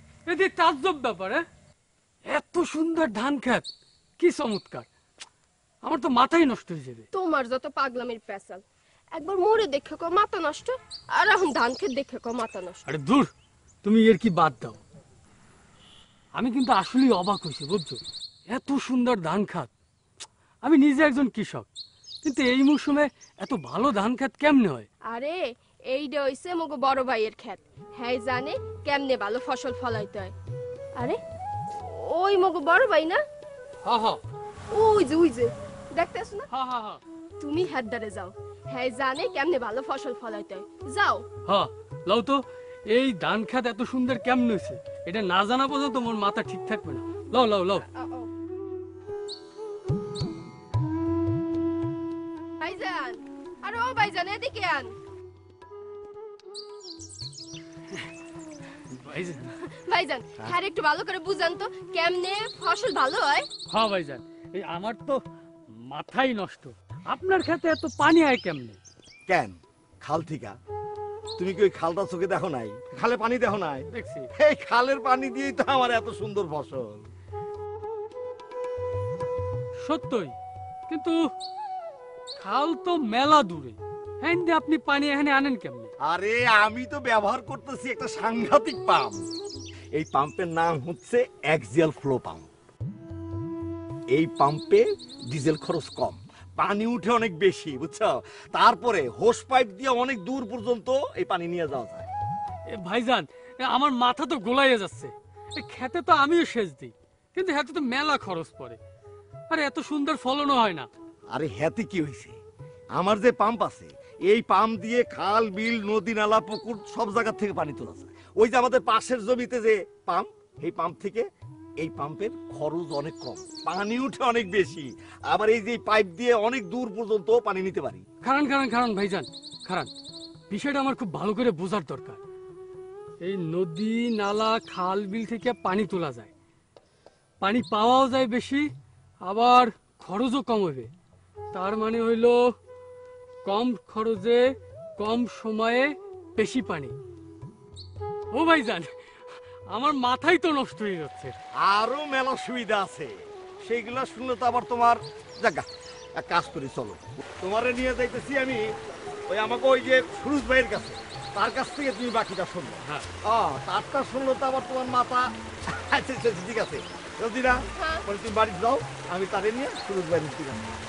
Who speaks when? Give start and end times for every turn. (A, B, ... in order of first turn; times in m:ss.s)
0:00.3-0:01.4 A
0:02.3-0:03.7 A
0:04.2-0:04.9 A
0:05.8-0:07.1 A
0:07.1-0:08.6 B
0:09.2-0:12.8 B
0:12.9-0:13.3 A
0:13.8-0:14.8 A
0:16.4-0:19.7 A
0:20.6-0:21.7 A
0:22.2-0:24.9 A
0:25.1-0:25.4 B
0:25.9-0:30.3 B
0:31.7-0:33.2 B
0:33.8-0:34.2 A
0:34.7-0:36.5 B
0:36.5-0:37.0 A
0:37.4-0:41.2 B
0:41.5-0:42.4 A
0:42.9-0:47.8 A
0:47.9-0:48.3 B
0:52.6-0:54.9 B
0:59.0-0:59.5 A
0:59.7-1:03.5 B
1:03.7-1:05.2 A
1:05.7-1:08.8 A
1:09.3-1:10.6 C
1:11.4-1:13.9 C
1:13.9-1:14.3 A
1:14.4-1:17.1 C
1:19.8-1:20.4 A
1:20.9-1:21.2 A
1:22.4-1:25.9 A
1:26.0-1:29.2 C
1:30.0-1:32.5 C
1:34.2-1:42.1 C
1:42.7-1:48.8 A
1:49.5-1:50.9 A
1:51.3-1:52.4 C
1:53.0-2:01.3 C
2:01.8-2:08.0 C
2:08.2-2:09.9 A
2:10.5-2:12.2 A
2:13.2-2:16.3 A
2:17.4-2:18.7 A
2:19.2-2:20.9 A
2:21.5-2:22.4 A
2:23.4-2:24.4 A
2:25.0-2:27.0 A
2:28.3-2:28.9 A
2:29.7-2:31.3 A
2:31.7-2:35.7 C
2:36.2-2:38.6 C
2:39.3-2:47.6 C
2:47.8-2:48.1 B
2:48.1-2:50.7 C